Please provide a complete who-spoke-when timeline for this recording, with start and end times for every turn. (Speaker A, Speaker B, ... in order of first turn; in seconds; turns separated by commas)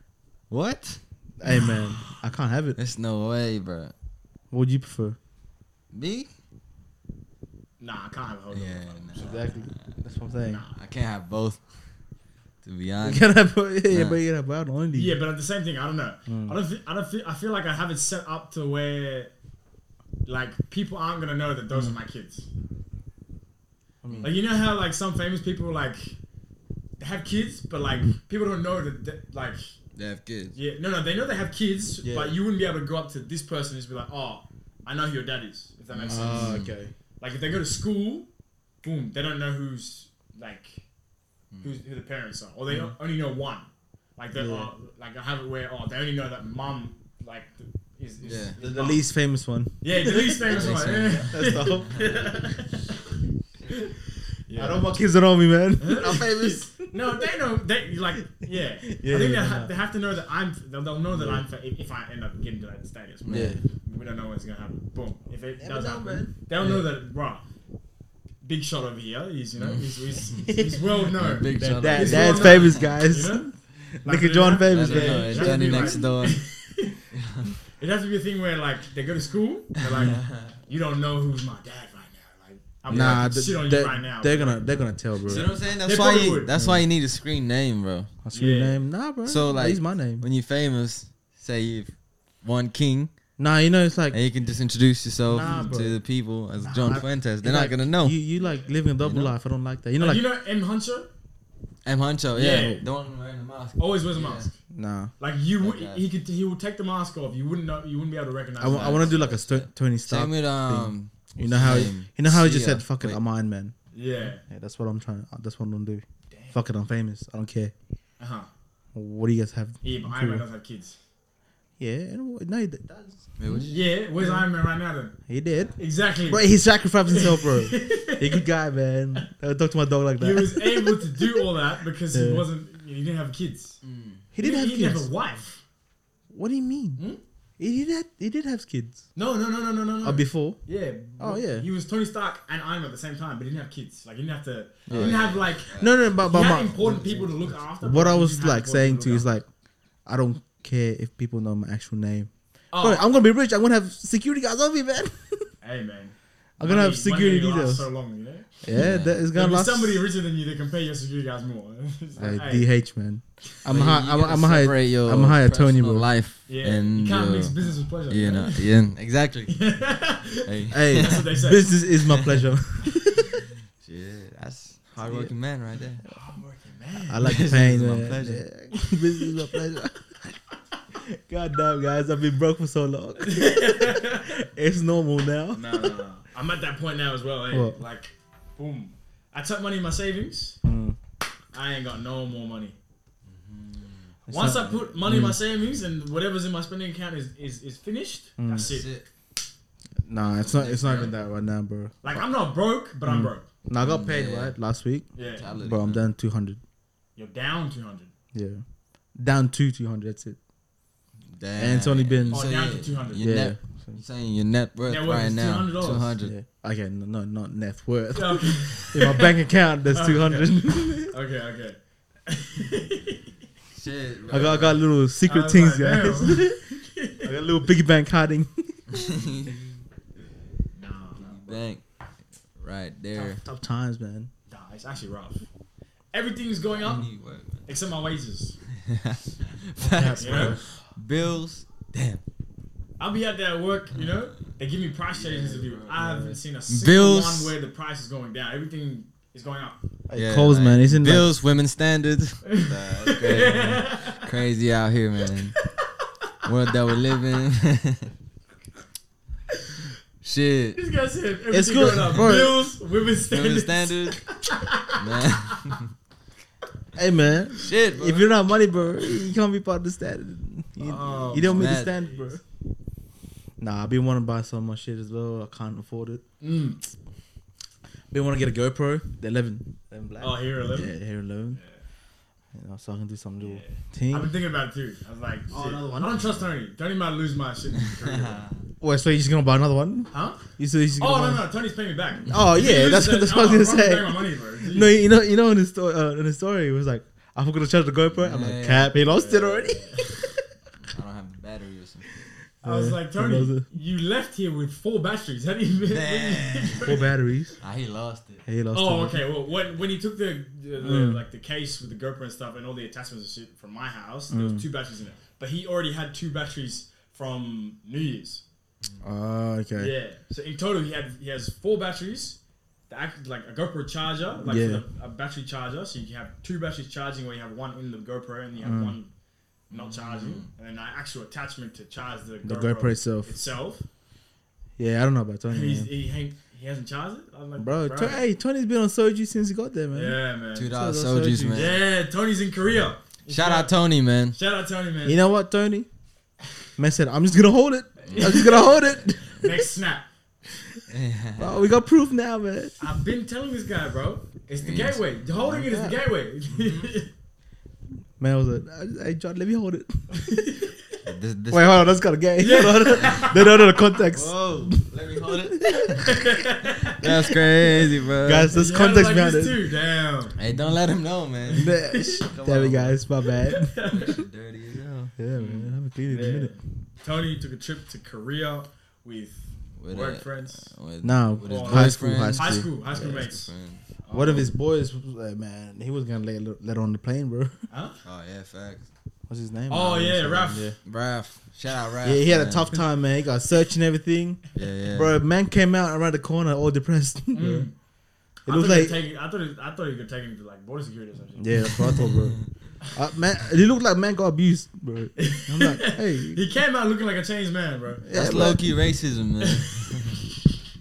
Speaker A: 0.5-1.0, Speaker B: 1.4-2.8, Speaker C: 1.4-2.1, Speaker A: 2.8-3.9, Speaker B: 4.5-5.2, Speaker A: 5.9-6.3, Speaker C: 7.8-9.5, Speaker A: 8.5-9.9, Speaker B: 9.2-10.6, Speaker C: 10.4-10.7, Speaker A: 10.7-11.6, Speaker A: 12.6-13.3, Speaker B: 13.0-15.2, Speaker A: 13.8-14.2, Speaker C: 14.9-19.3, Speaker B: 16.3-16.6, Speaker C: 20.2-22.5, Speaker B: 24.0-24.3, Speaker A: 24.1-24.3, Speaker C: 24.2-26.2, Speaker C: 27.0-29.7, Speaker A: 29.9-30.6, Speaker C: 30.6-36.6, Speaker B: 32.0-32.4, Speaker A: 35.9-36.7, Speaker B: 36.1-36.9, Speaker C: 37.2-38.3, Speaker C: 38.8-40.8, Speaker A: 41.5-41.8, Speaker C: 41.6-49.0, Speaker B: 44.3-44.7, Speaker A: 48.2-48.5, Speaker B: 48.6-52.2, Speaker C: 49.8-53.0, Speaker A: 50.5-52.1, Speaker C: 54.5-54.9, Speaker B: 54.5-57.1, Speaker C: 55.8-67.4, Speaker B: 58.2-59.7, Speaker B: 61.1-61.4, Speaker A: 63.2-63.6, Speaker B: 63.3-63.6, Speaker B: 65.6-66.9, Speaker C: 68.4-73.5, Speaker A: 69.6-70.5, Speaker A: 71.2-72.9, Speaker B: 71.5-76.0, Speaker C: 74.0-77.0, Speaker A: 74.7-76.4, Speaker A: 77.1-77.6, Speaker C: 77.8-84.6, Speaker A: 79.8-80.6, Speaker A: 82.9-83.2, Speaker B: 82.9-85.5, Speaker A: 85.2-88.1, Speaker C: 85.3-86.5, Speaker B: 86.5-86.9, Speaker B: 88.2-90.2, Speaker C: 88.3-88.8, Speaker A: 89.2-93.1, Speaker B: 93.4-94.2, Speaker A: 94.1-98.2, Speaker B: 95.3-96.0, Speaker C: 95.3-95.8, Speaker B: 96.6-100.2, Speaker C: 98.4-98.7, Speaker A: 99.0-99.3, Speaker C: 100.0-101.1, Speaker A: 101.8-104.5, Speaker C: 102.3-102.8, Speaker C: 103.8-104.5, Speaker B: 104.7-105.1, Speaker C: 105.2-109.2, Speaker A: 105.6-106.0, Speaker B: 108.6-113.8, Speaker A: 108.7-113.2, Speaker C: 113.9-114.4, Speaker B: 114.4-117.7, Speaker C: 116.3-116.6, Speaker C: 118.2-118.5, Speaker B: 118.9-120.5, Speaker C: 119.8-121.0, Speaker B: 121.8-123.3, Speaker A: 123.4-123.8, Speaker C: 123.5-125.1, Speaker B: 124.2-124.5, Speaker B: 125.3-131.4, Speaker C: 125.8-126.5, Speaker C: 127.1-128.4, Speaker C: 130.2-133.8, Speaker B: 132.1-132.5, Speaker A: 133.8-134.2, Speaker B: 134.3-135.1, Speaker C: 134.4-135.6, Speaker B: 136.3-137.0, Speaker B: 137.6-139.0, Speaker C: 139.2-149.3, Speaker B: 140.0-140.6, Speaker B: 141.2-141.7, Speaker B: 144.9-149.5, Speaker A: 144.9-147.5, Speaker B: 150.1-155.5, Speaker C: 152.7-153.0, Speaker C: 155.6-158.5, Speaker B: 156.6-157.9, Speaker B: 158.6-160.0, Speaker A: 158.7-159.2, Speaker C: 159.3-162.7, Speaker B: 162.2-166.1, Speaker A: 163.7-169.7, Speaker C: 166.5-168.7, Speaker C: 169.5-171.7, Speaker A: 170.4-171.3, Speaker B: 170.7-173.4, Speaker A: 172.1-172.5, Speaker A: 173.8-176.0, Speaker C: 176.1-177.2, Speaker B: 177.1-180.3, Speaker A: 177.2-178.4, Speaker C: 178.8-179.2, Speaker B: 180.9-186.0, Speaker C: 183.2-184.3, Speaker C: 185.5-190.6, Speaker B: 187.5-187.8, Speaker B: 190.6-191.0, Speaker C: 191.5-192.8, Speaker A: 193.2-194.1, Speaker B: 194.3-195.4, Speaker C: 194.3-198.9, Speaker B: 198.4-198.8, Speaker A: 198.5-199.1, Speaker B: 200.0-202.2, Speaker A: 200.3-201.2, Speaker C: 202.0-203.5, Speaker B: 203.1-206.6, Speaker A: 203.8-204.6, Speaker C: 205.1-205.5, Speaker A: 205.3-206.0, Speaker C: 207.2-208.1, Speaker B: 208.3-208.6, Speaker B: 209.1-210.4, Speaker A: 211.3-216.3, Speaker B: 211.6-212.5, Speaker C: 212.3-213.2, Speaker B: 213.1-214.0, Speaker C: 214.9-216.1, Speaker B: 216.2-221.1, Speaker C: 218.1-219.3, Speaker C: 219.9-223.3, Speaker A: 223.7-224.8, Speaker B: 224.3-229.2, Speaker C: 225.2-227.3, Speaker A: 228.9-229.8, Speaker C: 230.7-231.6, Speaker A: 231.2-231.8, Speaker A: 232.6-233.4, Speaker B: 233.1-234.3, Speaker C: 234.5-235.4, Speaker C: 236.1-237.1, Speaker A: 236.7-237.7, Speaker C: 237.7-238.6, Speaker A: 238.8-242.2, Speaker B: 239.8-240.6, Speaker C: 240.2-240.6, Speaker C: 243.0-249.8, Speaker A: 243.9-244.2, Speaker A: 245.1-245.9, Speaker B: 245.9-246.4, Speaker A: 246.7-247.5, Speaker B: 250.1-251.3, Speaker A: 250.1-255.6, Speaker C: 252.5-254.2, Speaker A: 256.4-258.1, Speaker A: 260.2-260.8, Speaker C: 260.8-265.8, Speaker B: 261.5-262.7, Speaker A: 263.3-264.2, Speaker A: 265.0-265.9, Speaker B: 266.9-272.4, Speaker A: 267.6-268.6, Speaker C: 270.8-272.3, Speaker A: 271.1-272.0, Speaker B: 273.6-276.2, Speaker C: 276.4-276.8, Speaker B: 278.1-281.6, Speaker C: 280.2-280.9, Speaker C: 281.5-281.8, Speaker B: 282.5-284.4, Speaker C: 283.4-288.5, Speaker B: 285.5-286.2, Speaker A: 288.0-288.6, Speaker B: 288.8-291.4, Speaker C: 290.1-290.4, Speaker C: 291.0-295.0, Speaker B: 292.3-300.2, Speaker A: 298.1-299.0, Speaker C: 299.1-300.1, Speaker A: 300.8-302.2, Speaker B: 302.6-303.6, Speaker C: 302.6-307.0, Speaker A: 305.9-306.9, Speaker B: 306.8-307.6, Speaker A: 307.6-308.4, Speaker B: 308.5-309.2, Speaker C: 308.7-318.4, Speaker B: 310.8-311.2, Speaker B: 314.3-314.6, Speaker B: 319.0-319.9, Speaker C: 319.8-322.4, Speaker C: 322.9-329.1, Speaker B: 324.4-324.8, Speaker B: 328.6-329.0, Speaker A: 329.7-330.5, Speaker C: 329.7-333.9, Speaker B: 332.4-333.4, Speaker B: 334.8-335.9, Speaker C: 335.5-338.2, Speaker B: 337.6-341.8, Speaker C: 339.9-340.7, Speaker A: 340.5-341.8, Speaker C: 341.5-343.7, Speaker A: 343.3-344.4, Speaker C: 344.3-345.2, Speaker B: 345.0-345.9, Speaker B: 346.8-349.7, Speaker A: 348.1-349.1, Speaker C: 348.1-348.6, Speaker C: 349.4-350.1, Speaker A: 350.9-351.7, Speaker B: 351.4-352.8, Speaker C: 352.8-357.1, Speaker A: 354.6-355.1, Speaker B: 355.4-356.0, Speaker A: 356.5-356.9, Speaker B: 358.2-360.0, Speaker C: 360.1-360.9, Speaker A: 361.0-361.9, Speaker B: 361.5-366.2, Speaker C: 362.4-363.7, Speaker A: 364.1-366.2, Speaker C: 366.0-367.6, Speaker A: 366.9-368.5, Speaker B: 368.2-369.6, Speaker C: 368.5-370.4, Speaker A: 370.4-373.0, Speaker C: 371.5-372.2, Speaker B: 371.5-373.8, Speaker C: 373.4-374.1, Speaker A: 373.9-375.1, Speaker B: 375.2-376.6, Speaker C: 375.4-380.7, Speaker A: 379.8-383.9, Speaker B: 381.0-383.2, Speaker C: 381.4-383.5, Speaker C: 384.0-384.5, Speaker B: 384.1-387.6, Speaker C: 387.7-388.0, Speaker A: 388.0-388.9, Speaker B: 389.3-390.8, Speaker C: 389.7-390.7, Speaker A: 390.9-392.8, Speaker B: 392.0-397.7, Speaker A: 394.5-395.1, Speaker C: 397.3-397.7, Speaker B: 398.5-399.0, Speaker C: 398.5-401.9, Speaker B: 401.4-402.4, Speaker B: 402.9-406.4, Speaker C: 405.2-408.1, Speaker B: 408.0-408.6, Speaker A: 408.1-410.2